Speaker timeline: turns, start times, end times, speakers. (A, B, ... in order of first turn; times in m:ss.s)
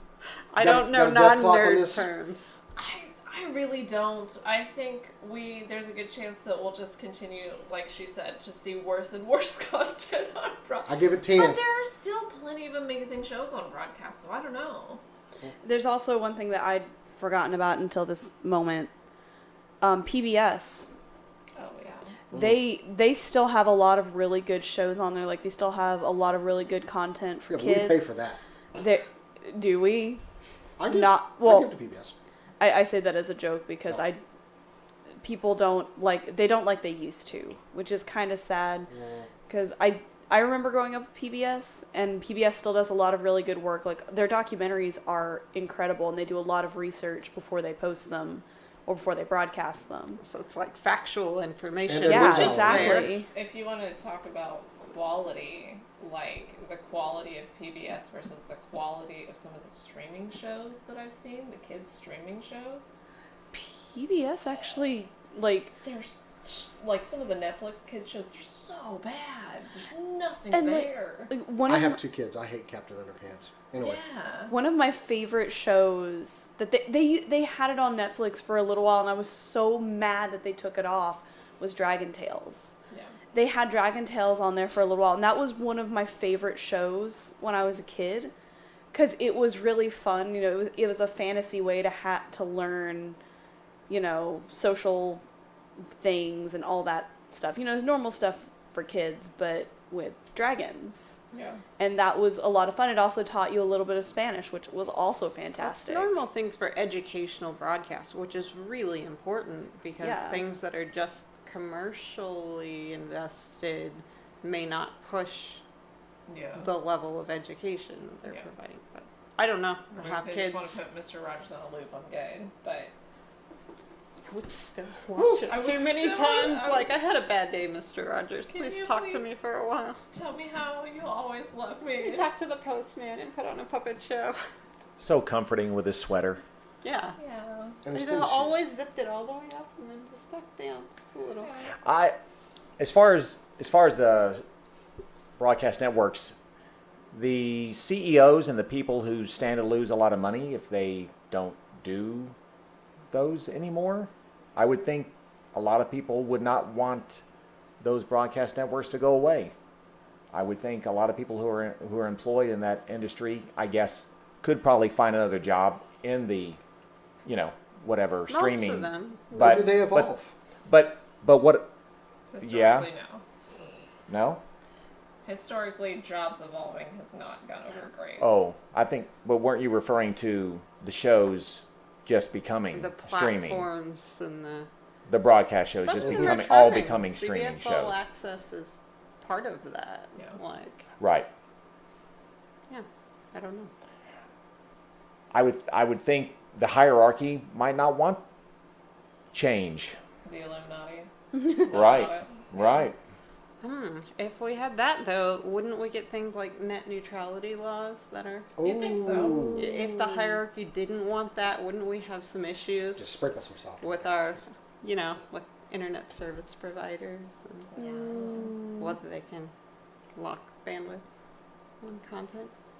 0:00.5-0:02.5 A
0:00.6-0:02.0 B
0:02.8-0:15.0 C
0:10.8-0:11.6 B
0:15.6-0:18.9 D
0:19.8-0:20.9 D
0:21.6-0:22.1 C
0:22.3-0:28.1 D
0:22.3-0:22.6 B
0:27.5-0:28.4 B
0:28.8-0:30.2 D
0:30.8-0:32.1 B
0:30.8-0:31.7 D
0:32.6-0:34.2 D
0:35.2-0:38.9 D
0:38.9-0:39.3 B
0:39.5-0:50.2 D
0:50.2-0:53.1 A
0:51.9-0:53.1 B
0:52.0-0:53.3 D
0:53.3-1:02.9 C
1:03.5-1:05.7 D
1:05.8-1:11.3 C
1:10.5-1:12.0 D
1:11.7-1:14.0 B
1:13.8-1:14.5 C
1:14.5-1:22.7 D
1:23.3-1:28.3 D
1:28.9-1:33.2 D
1:33.9-1:35.2 D
1:36.0-1:41.2 D
1:41.3-1:41.6 C
1:41.8-1:46.1 D
1:45.6-1:55.6 A
1:50.0-1:50.4 D
1:56.3-1:56.7 C
1:56.6-2:00.8 A
1:59.9-2:02.9 C
2:04.3-2:10.0 A
2:05.4-2:06.9 C
2:08.5-2:09.3 C
2:10.1-2:12.2 C
2:12.0-2:14.4 A
2:15.0-2:16.4 E
2:16.8-2:17.1 A
2:17.2-2:17.8 C
2:17.8-2:18.6 B
2:17.9-2:21.5 A
2:21.4-2:21.7 C
2:21.8-2:22.2 E
2:22.8-2:24.4 E
2:25.4-2:26.3 E
2:27.1-2:32.3 E
2:33.1-2:37.2 E
2:37.8-2:39.5 E
2:40.3-2:46.6 E
2:47.2-2:50.1 E
2:48.3-2:49.3 A
2:49.3-2:50.3 B
2:50.7-2:51.7 E
2:52.3-2:53.2 C
2:52.4-2:52.9 E
2:54.1-2:54.4 E
2:55.2-2:58.3 C
2:58.2-3:03.6 E
3:02.7-3:04.7 A
3:05.1-3:08.0 E
3:05.8-3:10.8 A
3:11.0-3:11.3 E
3:12.7-3:13.7 A
3:15.3-3:18.2 E
3:19.3-3:20.0 E
3:20.2-3:22.9 C
3:21.3-3:21.6 D
3:21.7-3:23.0 E
3:23.6-3:28.5 A
3:28.6-3:29.8 B
3:28.6-3:29.6 C
3:29.6-3:33.1 A
3:33.0-3:34.4 B
3:33.8-3:37.7 A
3:37.7-3:38.5 C
3:37.8-3:38.9 D
3:38.8-3:39.5 A
3:40.2-3:41.0 A
3:41.8-3:42.5 A